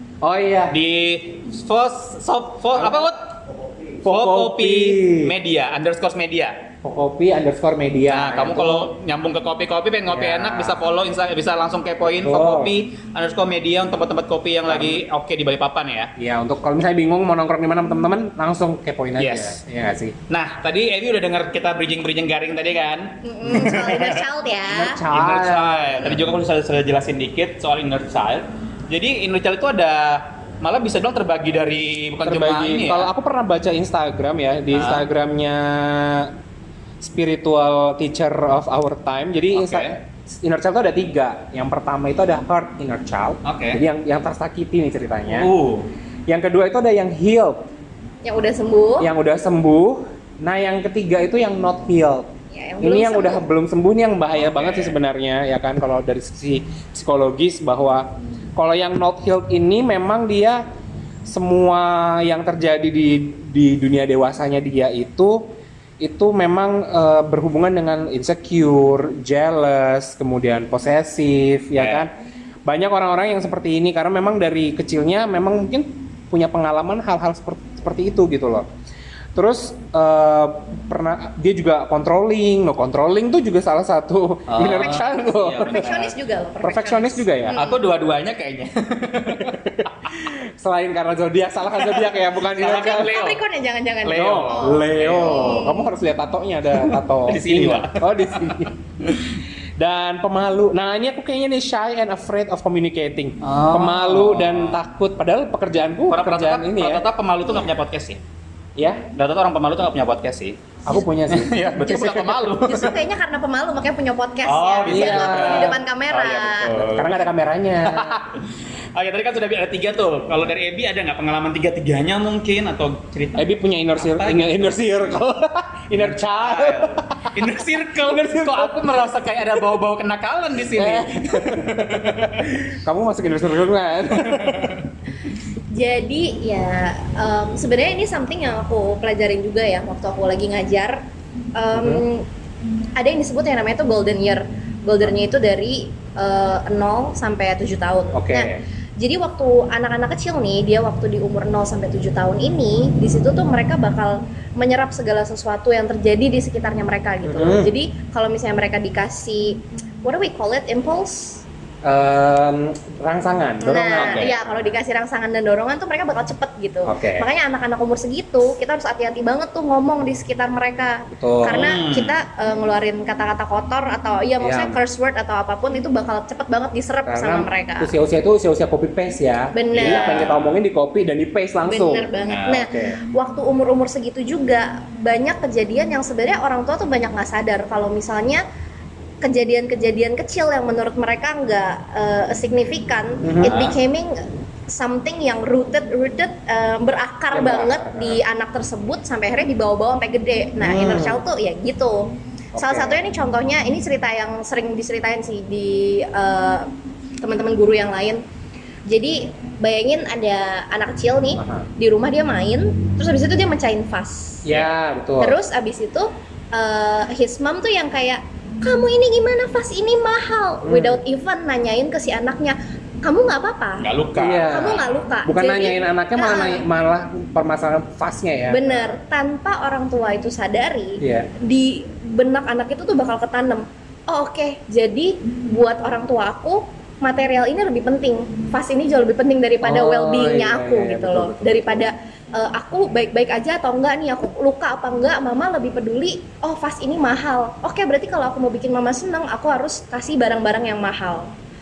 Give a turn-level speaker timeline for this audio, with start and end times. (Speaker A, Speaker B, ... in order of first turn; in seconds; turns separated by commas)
Speaker A: 0.2-0.8, Speaker B: 0.7-3.3, Speaker A: 2.7-3.1, Speaker A: 4.0-5.3, Speaker B: 4.0-6.5, Speaker A: 6.8-8.9, Speaker B: 8.1-16.1, Speaker A: 10.1-10.8, Speaker A: 12.2-12.7, Speaker A: 14.7-15.0, Speaker A: 16.2-20.1, Speaker B: 19.2-19.6, Speaker B: 20.3-24.2, Speaker C: 23.2-25.0, Speaker A: 24.7-26.3, Speaker B: 25.1-33.1, Speaker A: 32.2-36.3, Speaker B: 34.7-35.1, Speaker A: 37.0-45.5, Speaker B: 39.5-40.0, Speaker B: 43.4-43.8, Speaker B: 45.3-45.9, Speaker A: 46.3-47.7, Speaker C: 48.2-49.1, Speaker A: 49.0-60.6, Speaker C: 52.5-53.5, Speaker B: 54.3-55.0, Speaker A: 61.2-72.1, Speaker B: 71.8-72.0, Speaker A: 72.7-78.7, Speaker A: 79.3-85.9, Speaker B: 84.5-86.1, Speaker C: 85.7-87.8, Speaker A: 86.6-87.6, Speaker B: 87.5-90.1, Speaker A: 89.4-93.2, Speaker B: 91.8-93.4, Speaker C: 92.6-95.9, Speaker B: 94.0-95.6, Speaker A: 94.1-98.7, Speaker B: 96.7-99.4, Speaker A: 99.8-107.0, Speaker B: 103.4-104.8, Speaker B: 106.1-108.2, Speaker A: 108.8-109.0, Speaker B: 109.1-110.6, Speaker A: 110.8-112.4, Speaker B: 111.3-113.0, Speaker C: 111.8-116.7, Speaker B: 114.4-117.2, Speaker A: 114.9-115.8, Speaker A: 116.7-118.2, Speaker B: 117.8-124.8, Speaker A: 123.3-127.3, Speaker B: 125.9-132.6, Speaker A: 128.1-128.8, Speaker A: 130.7-131.9, Speaker A: 132.7-134.7, Speaker B: 134.2-134.9, Speaker C: 135.7-141.0, Speaker C: 141.5-142.2, Speaker A: 141.7-142.0, Speaker C: 143.0-161.4, Speaker A: 148.1-148.6, Speaker A: 157.2-157.7, Speaker A: 161.8-164.7, Speaker C: 163.6-177.9, Speaker B: 163.9-164.3, Speaker A: 166.8-167.2, Speaker A: 171.1-171.6, Speaker B: 171.5-172.1, Speaker A: 174.4-174.8, Speaker A: 177.1-183.0, Speaker C: 179.5-180.2, Speaker B: 179.7-180.5, Speaker C: 181.7-188.4, Speaker B: 182.2-182.7, Speaker C: 189.2-206.7, Speaker A: 193.2-193.6, Speaker B: 193.4-193.8, Speaker A: 197.3-198.2, Speaker A: 200.6-201.2, Speaker A: 202.5-203.0, Speaker C: 207.2-208.2, Speaker C: 208.8-214.4, Speaker A: 211.4-211.7, Speaker A: 214.4-215.4, Speaker C: 215.2-223.9, Speaker A: 220.6-221.0, Speaker B: 223.8-224.9, Speaker A: 224.2-229.0, Speaker C: 224.4-226.6, Speaker C: 228.5-251.3, Speaker A: 231.0-231.3, Speaker A: 239.6-241.9